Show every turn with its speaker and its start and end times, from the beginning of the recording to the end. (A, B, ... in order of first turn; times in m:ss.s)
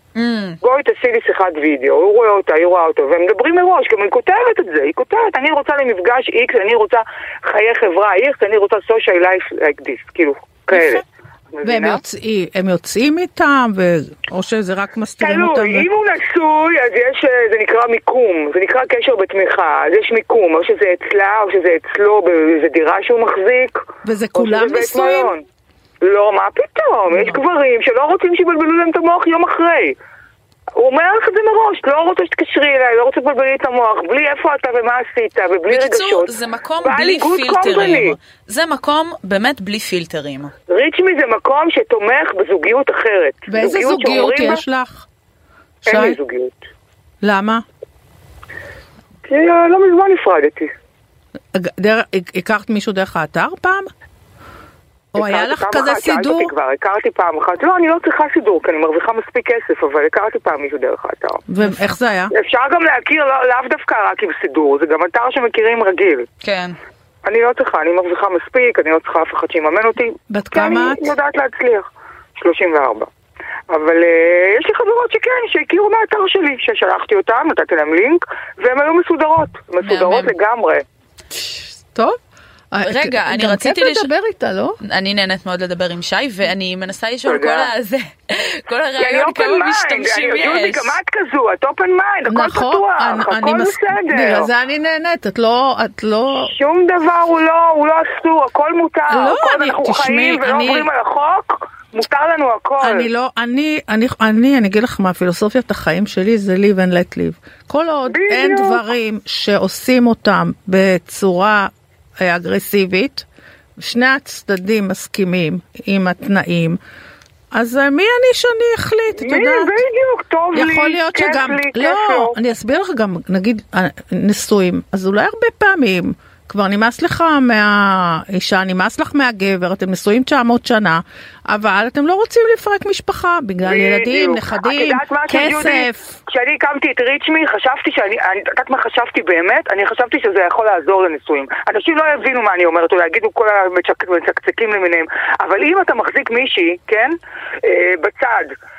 0:00.2-0:00.6 A
0:00.6-0:12.0 B
0:10.7-0:11.0 C
0:11.6-0:15.9 C
0:15.2-0:25.4 B
0:24.0-0:25.3 C
0:26.0-0:30.0 B
0:27.1-0:27.4 C
0:30.8-0:38.2 B
0:35.7-0:40.5 A
0:40.7-0:44.6 B
0:43.5-0:45.0 C
0:45.8-0:46.2 C
0:45.9-0:46.6 B
0:47.2-0:47.6 C
0:49.2-0:50.7 B
0:51.5-0:53.9 C
0:55.1-0:56.5 C
0:55.1-1:01.4 B
1:01.5-1:02.3 C
1:02.3-1:06.3 B
1:06.4-1:06.8 A
1:07.2-1:13.1 B
1:10.3-1:11.1 C
1:13.7-1:20.8 B
1:19.8-1:20.3 A
1:21.3-1:22.2 C
1:22.7-1:24.8 C
1:22.8-1:24.1 A
1:24.8-1:31.0 A
1:27.2-1:27.7 B
1:29.0-1:34.5 B
1:32.3-1:36.5 C
1:36.4-1:43.1 B
1:39.1-1:40.9 C
1:42.8-1:53.3 C
1:48.1-1:48.8 B
1:53.8-1:56.8 C
1:57.5-1:59.8 C
1:59.2-2:02.4 B
2:00.5-2:16.2 C
2:13.6-2:28.5 B